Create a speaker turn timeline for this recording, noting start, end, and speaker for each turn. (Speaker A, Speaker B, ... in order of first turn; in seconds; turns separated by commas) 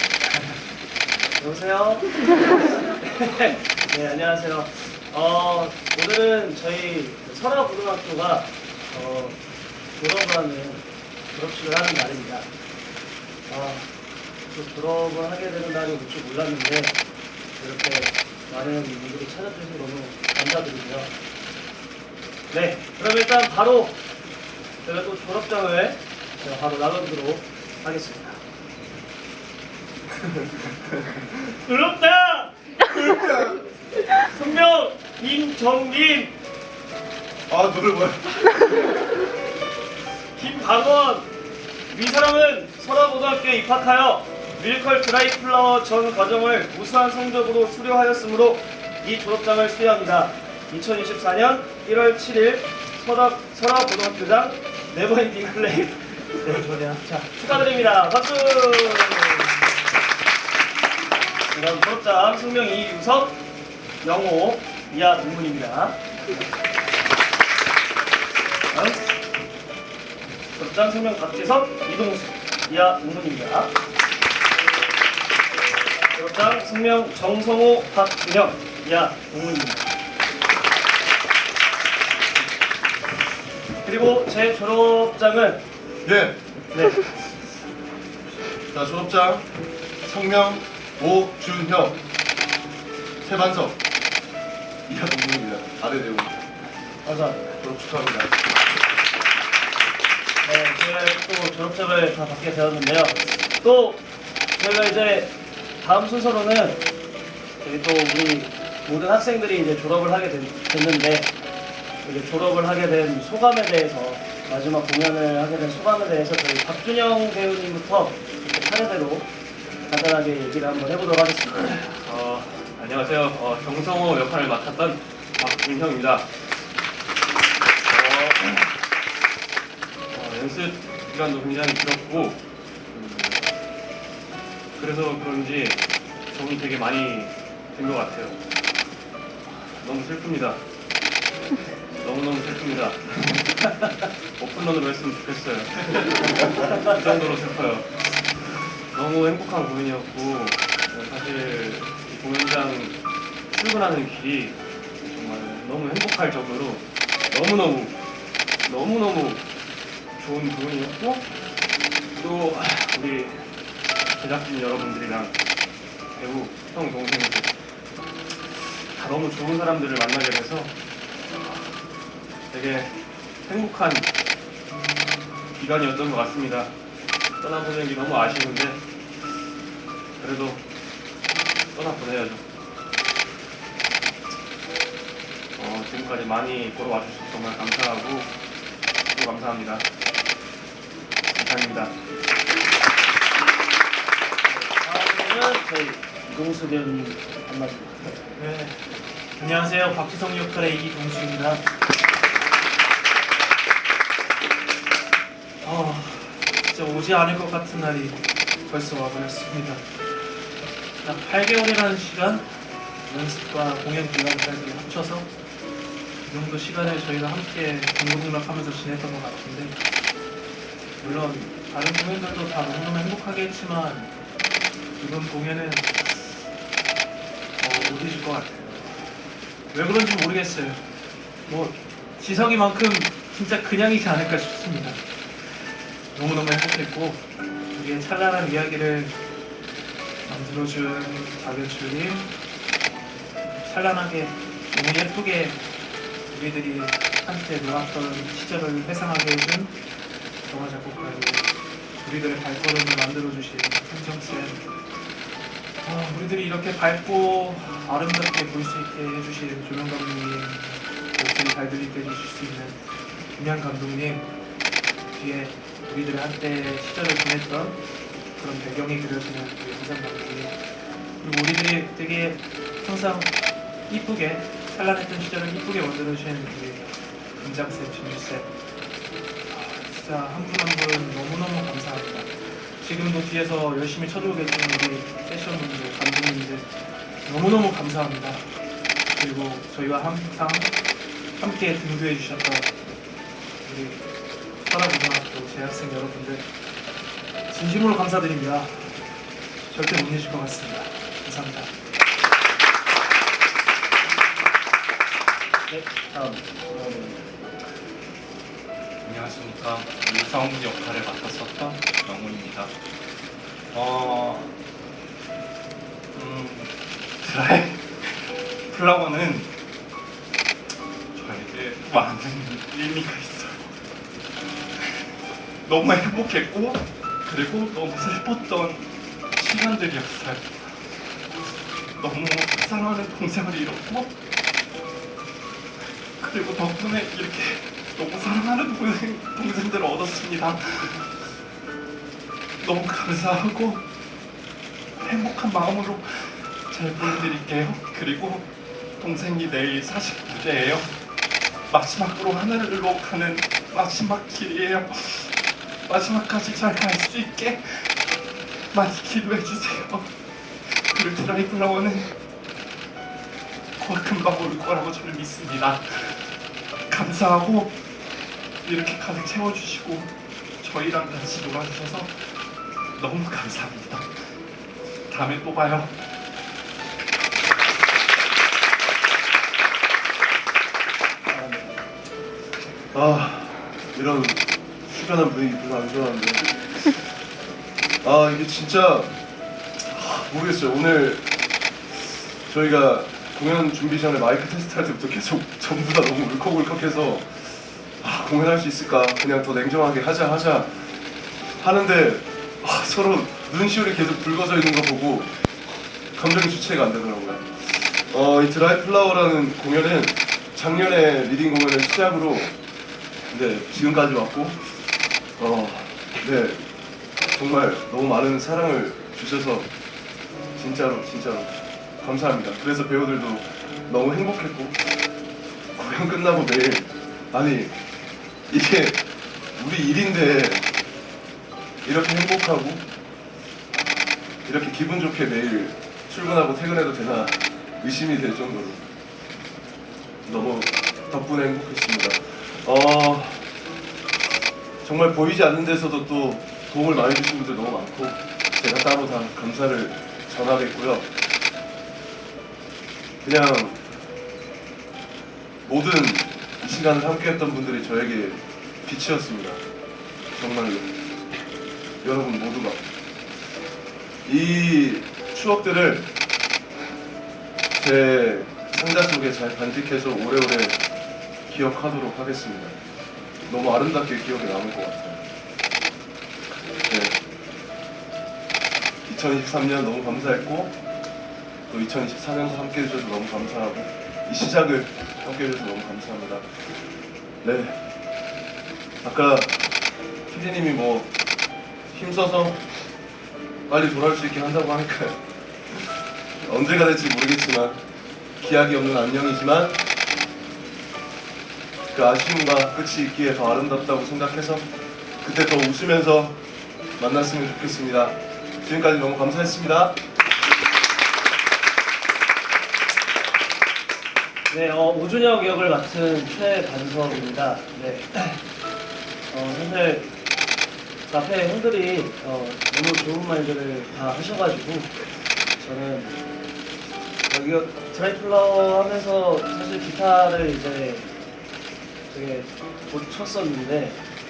Speaker A: 1.4-9.4, Speaker A: 9.9-12.5, Speaker A: 13.5-13.9, Speaker A: 14.5-17.0, Speaker A: 17.6-21.1, Speaker A: 22.5-24.0, Speaker A: 24.8-28.4, Speaker A: 31.4-32.5, Speaker B: 33.0-33.5, Speaker A: 34.1-36.3, Speaker B: 37.5-38.6, Speaker A: 40.3-41.3, Speaker A: 41.9-59.5, Speaker C: 56.6-57.0, Speaker A: 61.5-63.4, Speaker A: 64.0-66.4, Speaker A: 68.7-69.1, Speaker A: 70.5-73.7, Speaker A: 76.1-79.9, Speaker A: 83.8-85.6, Speaker B: 86.0-86.4, Speaker A: 86.7-87.1, Speaker B: 88.7-89.5, Speaker B: 90.0-92.0, Speaker B: 93.2-93.8, Speaker B: 94.9-96.4, Speaker A: 97.0-97.5, Speaker B: 97.6-98.4, Speaker A: 100.4-104.0, Speaker A: 104.6-106.8, Speaker A: 107.6-111.3, Speaker A: 112.0-119.3, Speaker A: 119.9-121.8, Speaker D: 121.9-126.3, Speaker D: 127.9-128.7, Speaker D: 130.1-133.4, Speaker D: 134.8-138.4, Speaker D: 139.5-140.6, Speaker D: 142.0-143.8, Speaker D: 144.4-147.9, Speaker D: 148.9-153.0, Speaker D: 153.5-158.0, Speaker D: 158.6-159.4, Speaker D: 160.2-161.3, Speaker D: 162.2-163.5, Speaker D: 164.1-165.4, Speaker D: 166.2-167.5, Speaker D: 168.9-170.7, Speaker D: 172.5-174.1, Speaker D: 175.5-176.7, Speaker D: 177.4-178.8, Speaker D: 180.2-180.6, Speaker D: 181.7-182.4, Speaker D: 185.6-188.3, Speaker D: 189.1-189.9, Speaker D: 191.3-191.9, Speaker A: 194.4-198.2, Speaker C: 198.3-198.8, Speaker C: 199.4-201.6, Speaker C: 205.6-209.8, Speaker C: 211.0-215.3, Speaker C: 216.2-219.8, Speaker C: 221.0-224.1, Speaker C: 225.0-226.4, Speaker C: 227.6-229.1, Speaker C: 229.7-230.8, Speaker C: 231.4-235.0, Speaker C: 236.1-239.2, Speaker C: 240.2-242.3, Speaker C: 243.6-245.6, Speaker C: 246.3-249.8, Speaker C: 250.4-254.7, Speaker C: 255.8-264.3, Speaker C: 265.1-267.8, Speaker C: 268.4-270.6, Speaker C: 271.2-278.5, Speaker C: 279.5-286.7, Speaker C: 287.2-288.5, Speaker C: 289.1-290.8, Speaker C: 291.4-292.7, Speaker C: 293.6-294.0, Speaker C: 294.6-296.5, Speaker C: 297.5-299.0, Speaker C: 299.7-301.7, Speaker A: 305.7-307.3, Speaker E: 309.0-312.7, Speaker E: 313.7-314.5, Speaker E: 316.1-319.5, Speaker E: 321.1-323.7, Speaker E: 325.6-330.9, Speaker E: 331.9-334.1, Speaker E: 336.2-341.1, Speaker E: 342.6-343.8, Speaker E: 345.0-348.5, Speaker E: 349.0-351.0, Speaker E: 351.7-360.1, Speaker E: 360.8-362.1, Speaker E: 363.8-366.3, Speaker E: 366.9-367.8, Speaker E: 368.6-372.2, Speaker E: 372.9-374.1, Speaker E: 375.0-376.0, Speaker A: 381.3-381.9, Speaker B: 382.9-386.8, Speaker B: 388.0-389.1, Speaker B: 389.8-391.2, Speaker B: 392.5-400.9, Speaker B: 401.6-405.3, Speaker B: 406.1-412.6, Speaker B: 413.3-414.8, Speaker B: 415.4-416.6, Speaker B: 417.3-419.7, Speaker B: 420.6-424.9, Speaker B: 425.7-427.8, Speaker B: 428.5-430.7, Speaker B: 431.8-432.8, Speaker B: 434.4-438.8, Speaker B: 440.2-443.5, Speaker B: 444.8-451.1, Speaker B: 453.2-453.8, Speaker B: 455.6-459.6, Speaker B: 460.3-460.9, Speaker B: 462.0-462.8, Speaker B: 464.2-466.1, Speaker B: 467.8-470.8, Speaker B: 471.5-472.7, Speaker B: 473.5-475.2, Speaker B: 476.7-477.2, Speaker B: 479.1-480.8, Speaker B: 481.7-486.4, Speaker B: 487.4-487.8, Speaker B: 489.0-491.1, Speaker B: 491.9-492.6, Speaker B: 493.7-495.2, Speaker B: 496.4-497.8, Speaker B: 498.4-499.8, Speaker B: 501.9-504.7, Speaker B: 505.2-506.4, Speaker B: 507.0-510.0, Speaker A: 514.5-518.4, Speaker A: 519.3-520.1, Speaker A: 521.1-524.9, Speaker A: 525.6-526.2, Speaker A: 527.3-531.1, Speaker A: 532.1-534.0